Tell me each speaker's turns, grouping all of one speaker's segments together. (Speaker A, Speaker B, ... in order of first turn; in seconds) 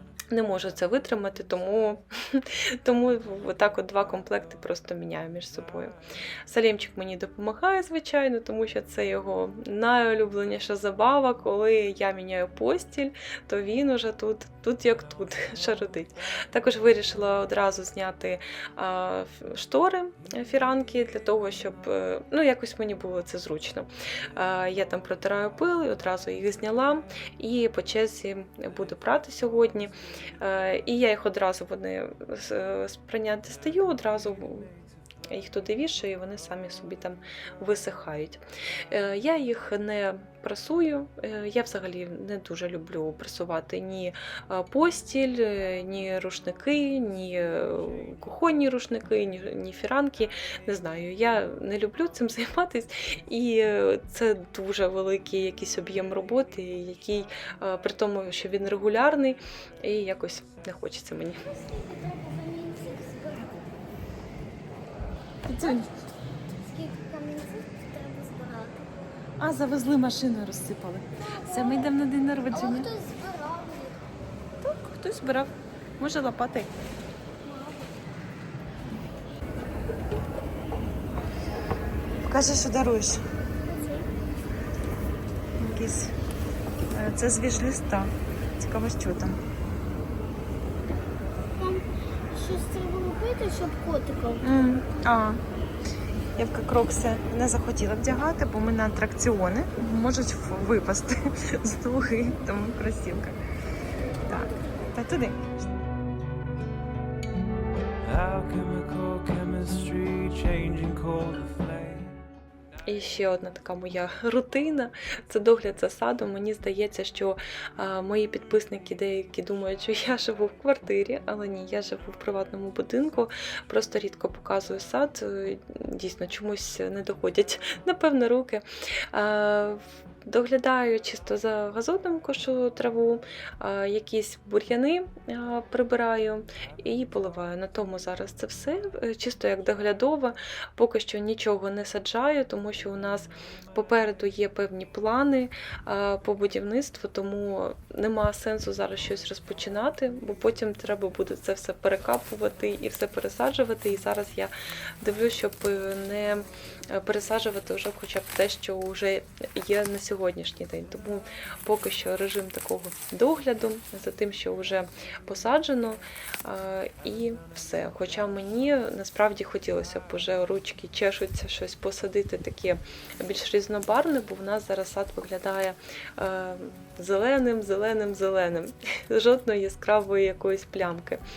Speaker A: 0.3-5.9, 6.5-34.7, 35.3-61.4, 65.5-65.9, 69.4-72.9, 74.6-76.7, 82.2-83.2, 85.6-86.1, 86.9-89.4, 94.4-95.4, 96.3-103.4, 104.2-105.5, 112.9-181.2
Speaker B: 61.5-63.7, 65.6-65.9, 66.5-68.8, 71.5-71.9, 72.5-74.1, 77.4-78.1, 83.6-84.1, 91.5-94.6
Speaker C: 108.0-112.2